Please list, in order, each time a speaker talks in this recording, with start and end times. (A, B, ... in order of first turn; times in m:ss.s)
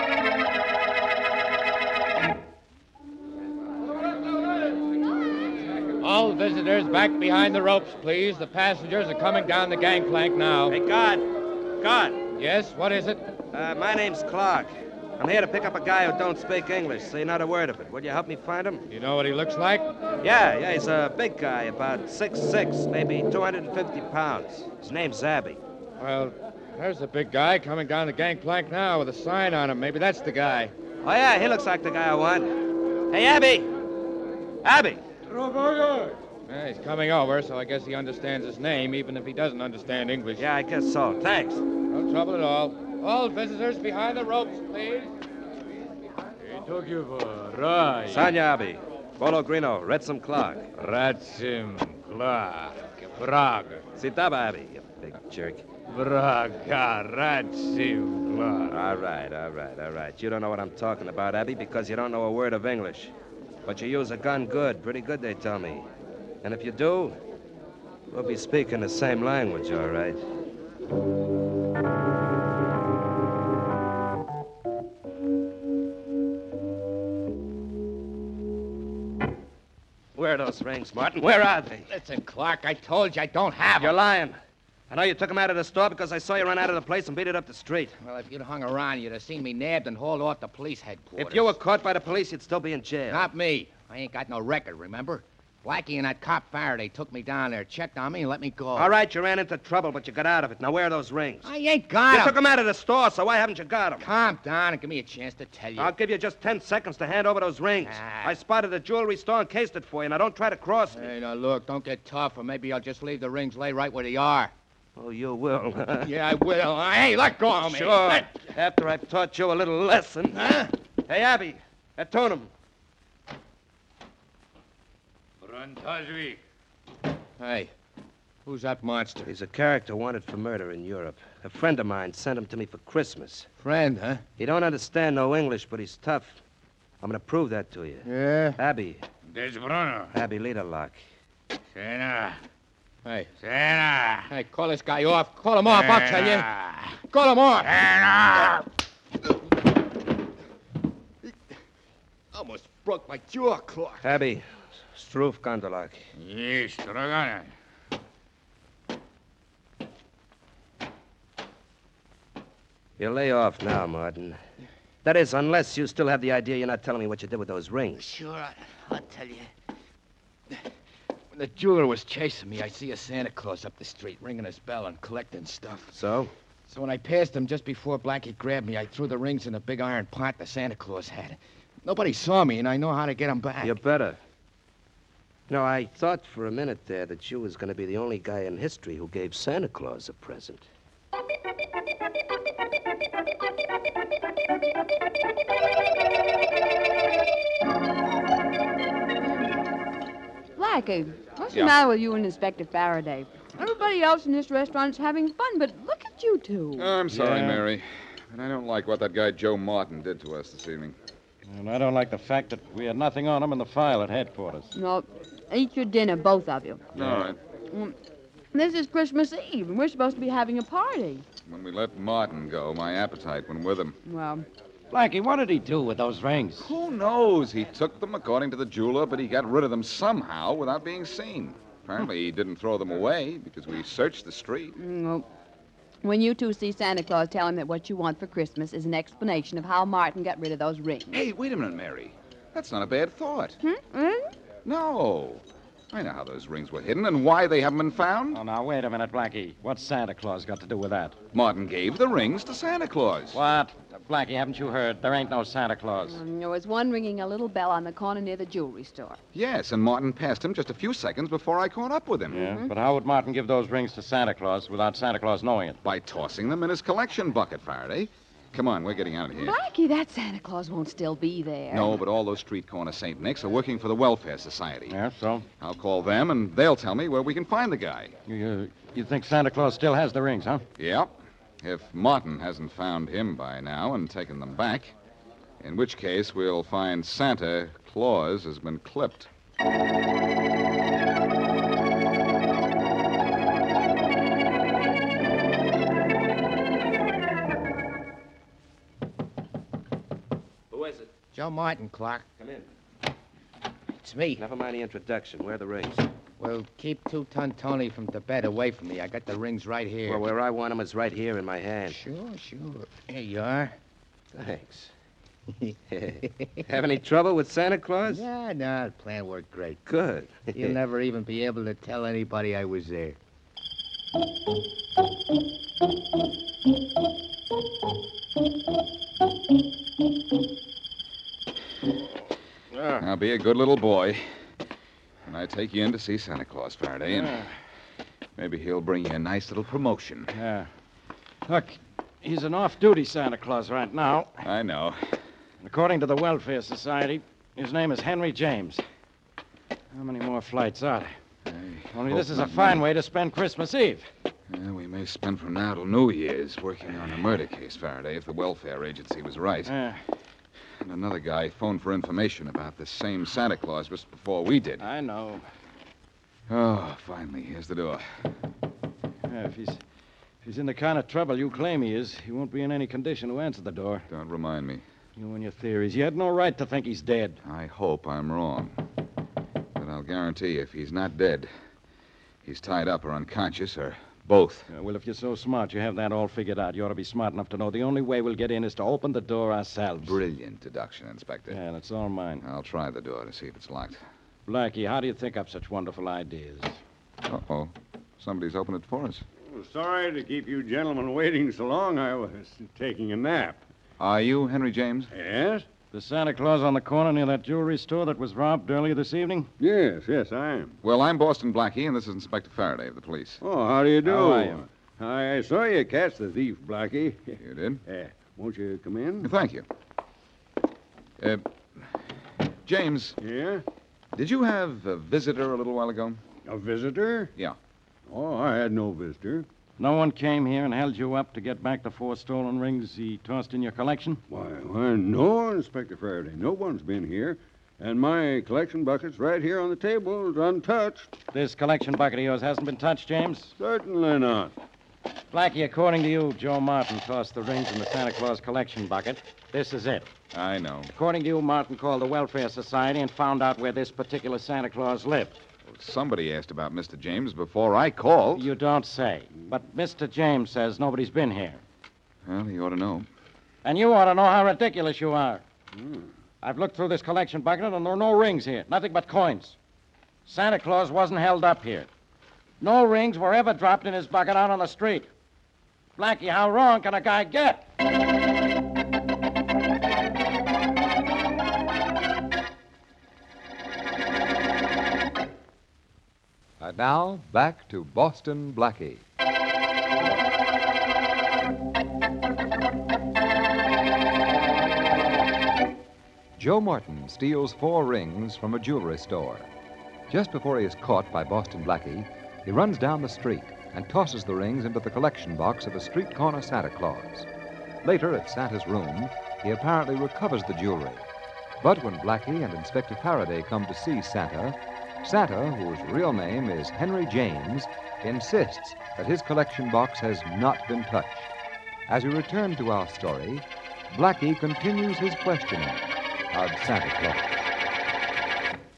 0:06.0-0:10.8 A
0:10.7-0:11.2 B
0:11.8-0:12.2 B
0:12.4-0:13.2 A
0:13.5-0:18.8 B
0:18.9-0:19.8 A
0:20.2-0:25.6 B
0:26.0-0:30.7 A
0:31.0-0:32.5 B
0:33.1-0:33.7 B
0:34.6-0:35.0 B
0:35.5-0:36.1 C
0:36.5-0:37.5 A
0:37.6-0:38.0 D
0:38.2-0:40.4 A
0:40.4-0:41.6 B
0:41.9-0:45.0 A
0:46.4-0:48.3 A
0:48.1-0:50.7 B
0:50.7-0:53.8 A
0:53.9-0:55.6 B
0:55.9-0:58.8 A
0:58.7-1:03.1 B
1:03.6-1:05.9 B
1:06.4-1:07.2 B
1:08.1-1:10.2 B
1:20.1-1:21.9 B
1:21.9-1:23.9 D
1:23.7-1:24.4 B
1:24.9-1:28.0 B
1:28.0-1:31.6 D
1:31.2-1:33.3 B
1:33.1-1:38.9 D
1:38.7-1:41.5 B
1:41.4-1:42.4 D
1:42.1-1:44.1 B
1:44.0-1:45.9 D
1:45.8-1:51.1 B
1:47.8-1:48.3 D
1:50.9-1:54.5 D
1:55.0-1:56.1 B
1:56.0-1:58.3 D
1:57.6-2:02.5 B
2:00.4-2:00.7 D
2:05.4-2:06.4 A
2:07.4-2:07.7 D
2:08.4-2:09.3 D
2:09.2-2:13.5 B
2:13.6-2:14.2 D
2:14.4-2:16.4 B
2:17.0-2:19.0 B
2:18.0-2:18.6 D
2:19.3-2:20.1 A
2:20.1-2:21.0 B
2:21.8-2:22.4 A
2:23.0-2:23.4 D
2:23.4-2:24.3 A
2:24.3-2:27.8 D
2:25.7-2:26.6 A
2:27.8-2:28.4 A
2:32.3-2:34.0 D
2:34.0-2:36.0 B
2:36.2-2:37.4 A
2:43.0-2:44.4 B
2:45.0-2:48.1 B
2:48.0-2:49.5 D
2:51.3-2:55.9 D
2:55.9-2:56.3 B
2:56.7-3:03.7 D
3:03.6-3:04.2 B
3:05.5-3:10.6 B
3:20.6-3:26.9 E
3:26.8-3:30.9 F
3:27.1-3:27.6 C
3:31.4-3:34.7 C
3:34.7-3:36.9 E
3:36.9-3:37.4 F
3:37.0-3:37.3 C
3:38.5-3:41.2 E
3:41.4-3:44.0 F
3:44.0-3:44.4 E
3:44.9-3:46.7 C
3:46.6-3:54.7 F
3:54.8-3:55.2 E
3:56.0-4:01.2 E
4:01.1-4:03.6 F
4:03.6-4:04.3 E
4:04.6-4:08.4 F
4:08.3-4:11.2 C
4:11.3-4:13.4 F
4:13.3-4:16.2 C
4:16.0-4:19.2 E
4:19.3-4:22.5 F
4:22.3-4:25.8 C
4:25.8-4:29.6 F
4:29.3-4:32.0 E
4:31.7-4:34.9 F
4:34.9-4:35.4 C
4:35.6-4:38.1 F
4:38.3-4:40.6 C
4:40.8-4:44.9 F
4:45.6-4:49.3 F
5:00.7-5:01.0 B
5:01.3-5:02.2 D
5:02.4-5:02.6 B
5:04.0-5:04.4 D
5:04.4-5:06.0 B
5:06.4-5:10.2 D
5:10.0-5:12.0 B
5:11.9-5:13.7 D
5:14.3-5:14.9 B
5:15.6-5:16.6 D
5:15.9-5:18.2 B
5:18.1-5:19.8 D
5:19.9-5:20.8 B
5:20.5-5:23.2 D
5:32.7-5:33.0 C
5:33.0-5:34.2 F
5:35.3-5:37.4 F
5:37.1-5:37.5 C
5:38.4-5:40.3 F
5:40.3-5:40.7 C
5:41.4-5:44.5 C
5:44.4-5:45.2 F
5:45.6-5:48.8 C
5:49.9-5:51.1 C
5:51.4-5:52.8 F
5:51.9-5:54.1 C
5:54.5-5:59.7 F
5:59.6-6:00.0 C
6:00.8-6:04.8 F
6:04.8-6:05.4 C
6:06.5-6:08.1 F
6:09.3-6:09.8 C
6:10.4-6:14.1 C
6:14.1-6:14.8 F
6:15.2-6:17.4 C
6:17.4-6:18.7 F
6:19.8-6:21.5 F
6:22.4-6:24.7 F
6:24.7-6:30.2 C
6:30.0-6:31.6 F
6:31.5-6:32.4 C
6:32.4-6:34.0 F
6:34.5-6:36.8 C
6:37.3-6:39.2 F
6:39.5-6:43.6 G
6:44.0-6:45.1 F
6:45.1-6:45.7 G
6:45.9-6:49.5 C
6:49.6-6:50.8 G
6:50.8-6:53.4 F
6:53.4-6:59.3 G
6:54.0-6:54.6 C
6:57.4-6:57.8 F
6:59.2-6:59.6 F
7:01.2-7:01.8 F
7:02.6-7:03.2 F
7:03.2-7:03.6 G
7:04.1-7:06.2 F
7:06.4-7:07.3 G
7:08.1-7:09.4 G
7:09.8-7:14.2 C
7:14.3-7:21.2 G
7:21.3-7:23.5 C
7:23.6-7:24.5 G
7:25.3-7:30.1 C
7:30.3-7:30.9 F
7:30.9-7:35.4 C
7:35.6-7:38.5 F
7:38.3-7:41.6 C
7:42.2-7:43.0 F
7:43.6-7:45.4 C
7:45.8-7:46.1 G
7:46.4-7:49.6 C
7:50.2-7:51.9 C
7:52.6-7:55.1 C
7:56.0-7:57.7 C
8:06.6-8:09.0 H
8:16.4-8:19.5 H
8:20.1-8:27.3 H
8:27.8-8:31.1 H
8:31.6-8:41.3 H
8:41.9-8:47.4 H